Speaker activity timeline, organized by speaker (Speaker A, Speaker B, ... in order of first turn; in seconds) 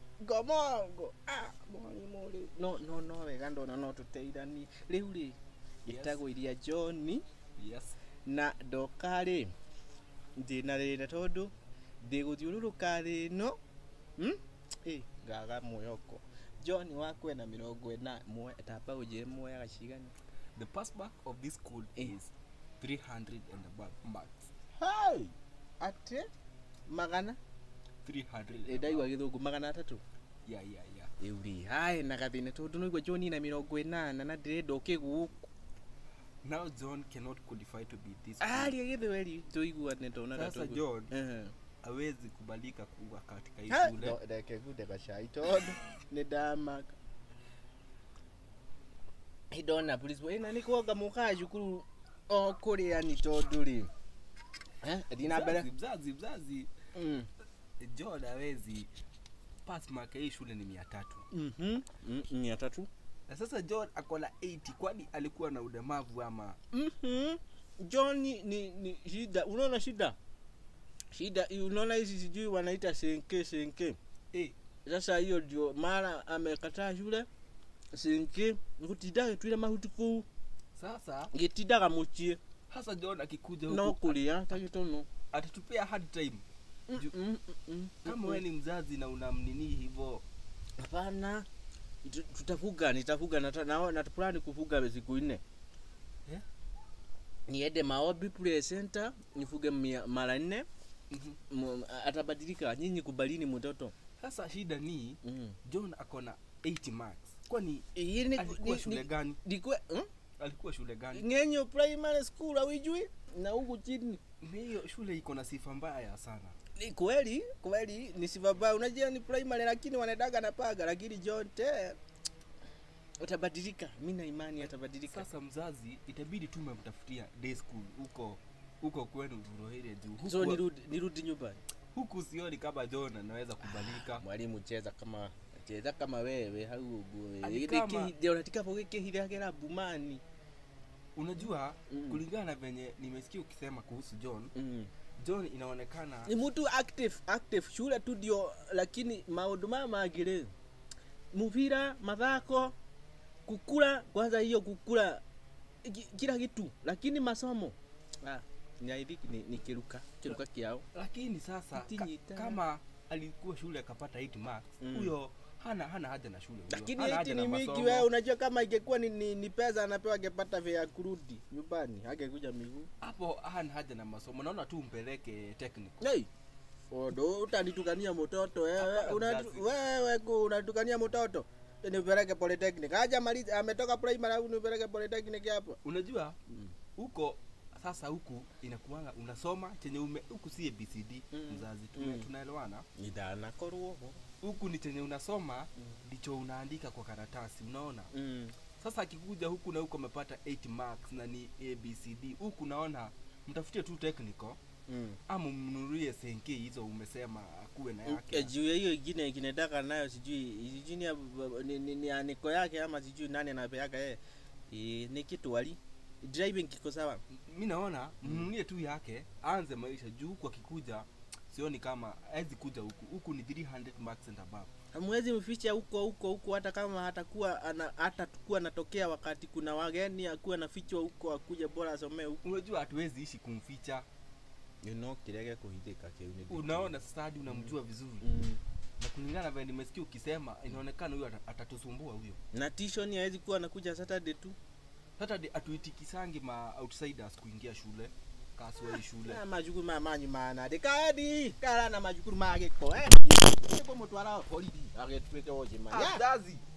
Speaker A: 0.2-7.2, 8.2-9.5, 10.4-13.6, 14.2-20.1, 24.8-26.3, 26.9-27.4, 28.7-30.0, 31.2-35.5, 38.4-41.5, 43.7-46.9, 49.5-53.9, 54.8-55.7, 56.9-57.3, 61.3-62.9, 66.7-70.2, 71.1-74.0, 74.8-77.3, 77.9-80.2, 81.3-82.4, 83.7-85.1, 86.9-88.4, 90.8-91.5, 92.0-95.4, 97.5-100.7, 101.5-103.9, 105.2-105.5, 107.9-110.1, 111.1-114.2, 116.8-122.0, 123.2-125.2, 130.2-131.6, 134.1-140.2, 141.9-142.2, 144.5-144.9, 146.3-150.5, 151.3-152.7, 153.4-155.2, 155.8-160.8, 161.7-162.6, 164.8-165.1, 166.7-172.9, 176.0-176.3, 176.9-185.8, 191.3-192.3, 193.0-194.2, 198.1-198.6, 204.9-205.2, 208.1-217.2, 218.2-218.5, 224.9-232.4, 234.8-237.0, 238.2-238.6, 242.5-244.6, 249.2-256.2
Speaker B: 5.9-6.2, 7.6-8.0, 20.6-24.5, 28.0-29.1, 30.4-31.1, 36.4-38.7, 40.3-41.1, 41.8-44.2, 55.2-56.7, 57.8-58.9, 59.6-61.2, 63.3-66.6, 80.8-81.3, 82.7-84.2, 85.3-86.4, 88.0-90.2, 101.1-101.4, 104.2-109.4, 110.4-111.2, 114.4-116.5, 125.1-130.6, 131.9-134.2, 137.4-138.1, 141.2-144.5, 145.2-146.3, 160.9-168.1, 173.0-176.0, 178.8-179.7, 185.8-186.4, 186.9-192.8, 194.4-198.1, 198.8-204.6, 205.3-208.5, 217.3-224.7, 232.4-234.1, 236.5-238.3, 239.0-242.4, 245.2-249.4, 255.9-256.6